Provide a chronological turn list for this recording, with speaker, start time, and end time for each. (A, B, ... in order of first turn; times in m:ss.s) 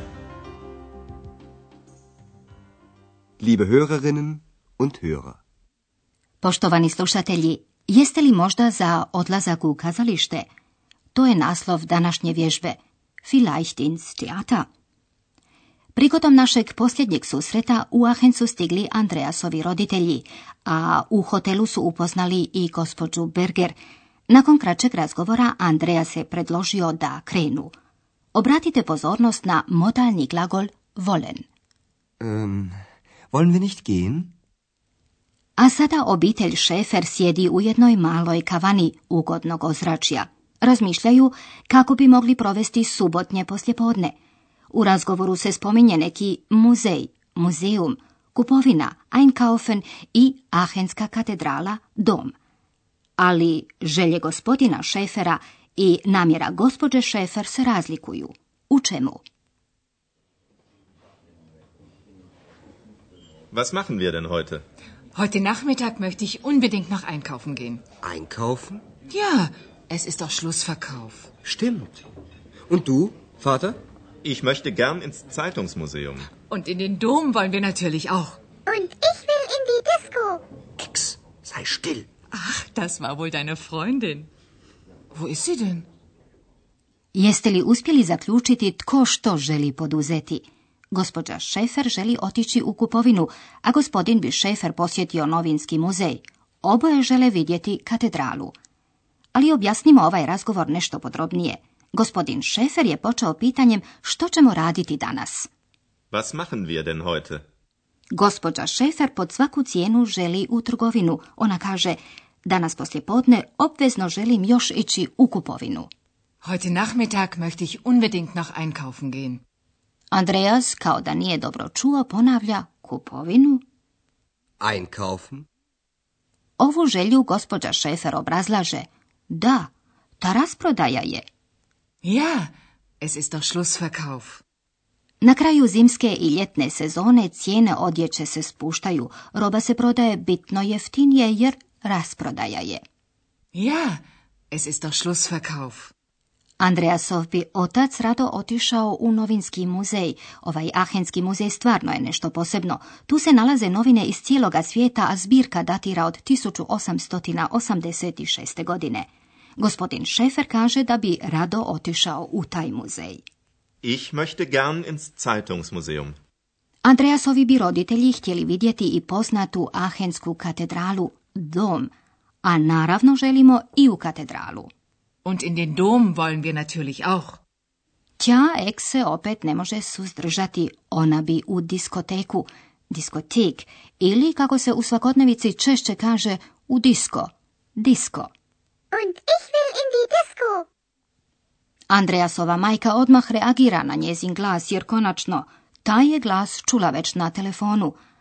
0:03.4-0:05.4 A
0:06.4-0:10.5 B
0:11.1-0:14.6 B
0:15.9-0:27.7 B
0:28.3-0:31.4 B
0:32.2-0:32.8 A
0:33.3-0:34.3 A
0:35.6-0:44.2 B
0:44.7-0:52.3 B
0:53.2-0:59.2 B
1:03.5-1:04.6 C
1:05.1-1:07.8 D
1:08.0-1:08.8 A
1:09.1-1:11.3 D
1:11.4-1:12.0 A
1:12.7-1:13.8 A
1:14.2-1:16.3 C
1:16.5-1:18.4 D
1:18.7-1:20.4 E
1:20.8-1:22.1 A
1:22.3-1:24.3 D
1:25.1-1:25.8 D
1:27.1-1:38.5 B
1:39.3-1:45.5 B
1:46.1-1:47.4 C
1:48.1-1:55.9 B
1:56.4-1:59.4 D
2:00.1-2:03.6 B
2:04.6-2:05.4 A
2:06.6-2:11.2 B
2:12.0-2:14.4 D
2:15.2-2:22.8 B
2:23.5-2:24.0 D
2:24.5-2:25.9 D
2:26.6-2:39.1 B
2:39.6-2:43.2 B
2:43.8-2:46.1 C
2:46.8-2:51.9 B
2:52.4-2:54.7 B
2:55.2-2:57.4 D
2:58.2-3:08.3 B
3:08.9-3:10.6 E
3:11.9-3:18.0 B